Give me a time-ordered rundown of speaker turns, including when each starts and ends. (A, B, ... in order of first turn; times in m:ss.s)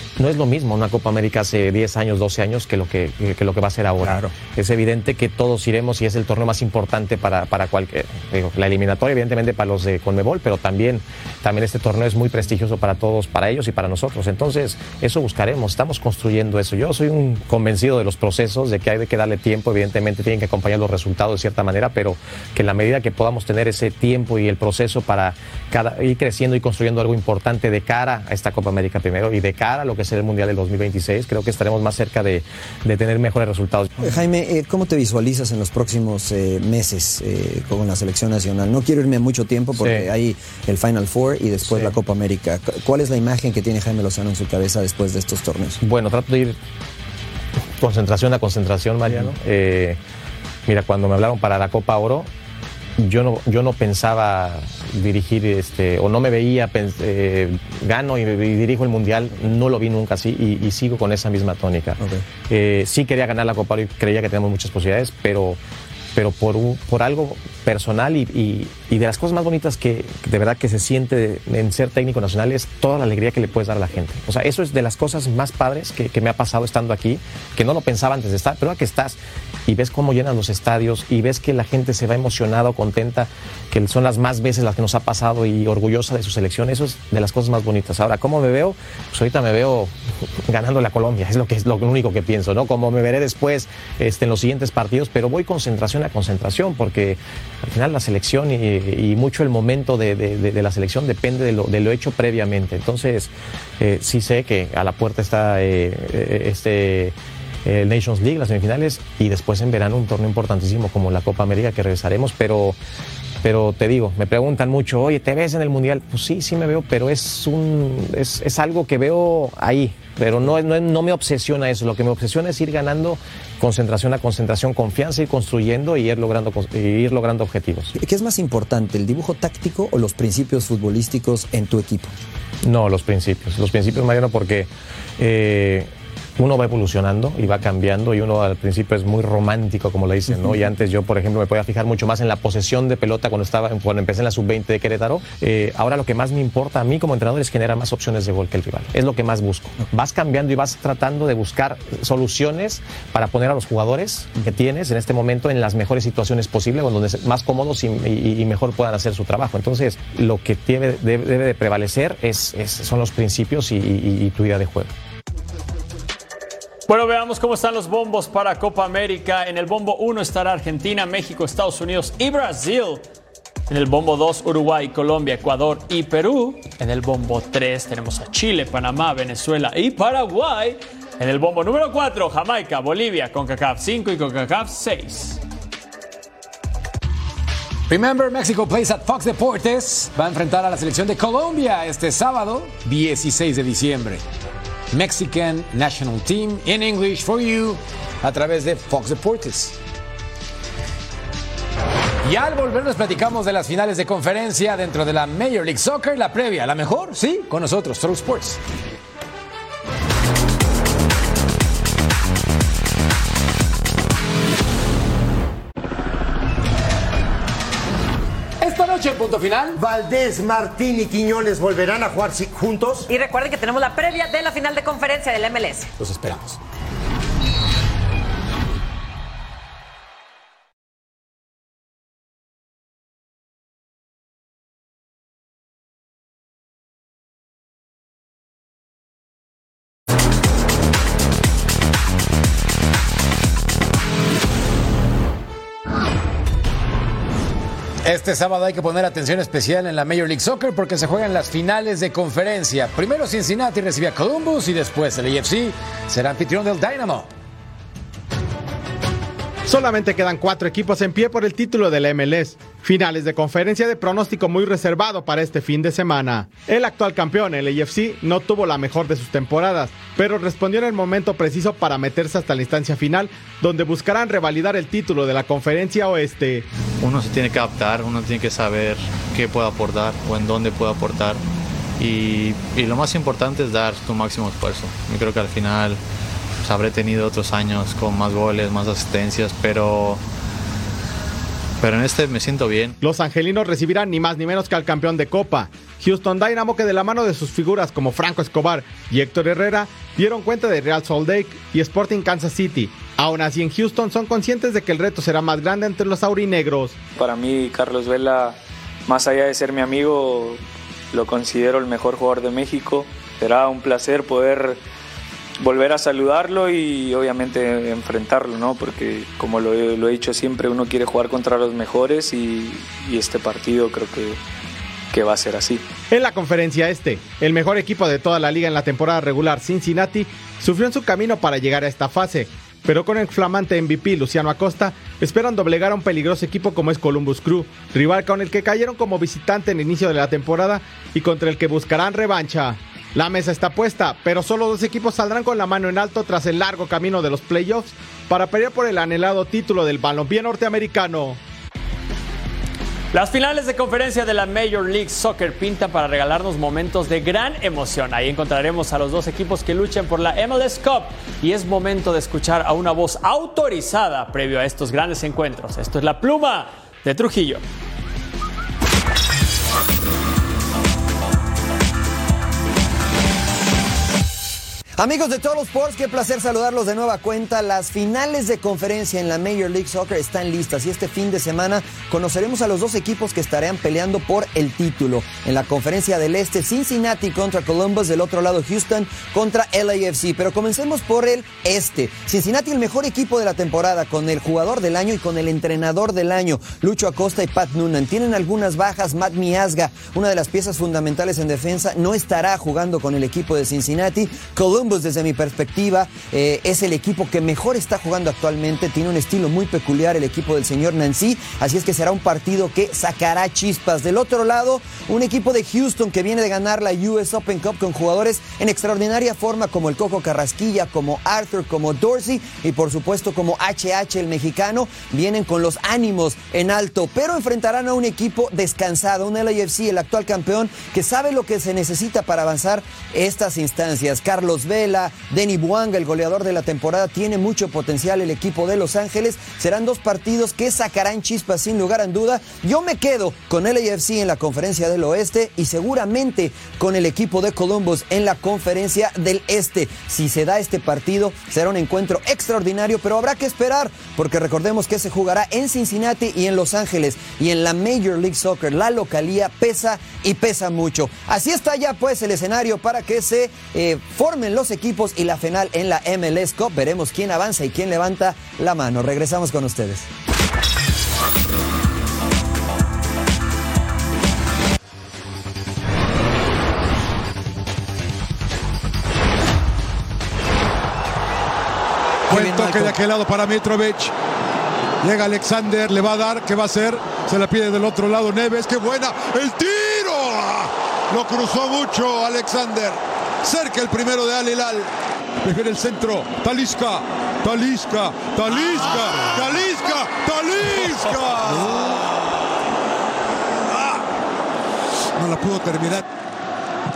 0:00.2-0:34.1 A
0:34.0-0:45.8 B
0:39.8-0:40.1 A
0:41.7-0:41.9 A
0:45.8-0:46.6 A
0:47.8-0:50.0 A
0:50.7-0:52.3 A
0:53.0-1:05.6 A
1:06.1-1:29.9 A
1:30.5-1:52.8 A
1:53.4-2:07.9 A
2:08.0-2:12.1 B
2:12.6-2:44.9 A
2:46.9-2:53.0 C
2:53.7-3:05.4 C
3:07.9-3:14.2 D
3:14.9-3:19.7 D
3:22.2-3:28.6 D
3:38.6-3:39.7 D
3:39.8-3:43.1 E
3:43.1-3:45.9 F
3:46.0-3:46.5 D
4:08.0-4:17.3 D
4:19.7-4:36.7 G
4:37.0-4:41.4 H
4:42.0-4:46.0 H
4:46.6-4:50.2 H
4:51.8-4:53.0 H
4:53.0-5:07.0 G
5:07.2-5:14.8 I
5:15.6-5:24.4 I
5:25.1-5:25.9 I
5:26.1-5:51.4 G
5:53.1-6:07.6 C
6:15.0-7:50.0 B
8:02.3-8:02.9 E
8:02.3-8:04.1 J
8:05.0-8:14.9 J
8:15.4-8:22.0 J
8:23.7-8:24.0 J
8:25.2-8:26.0 J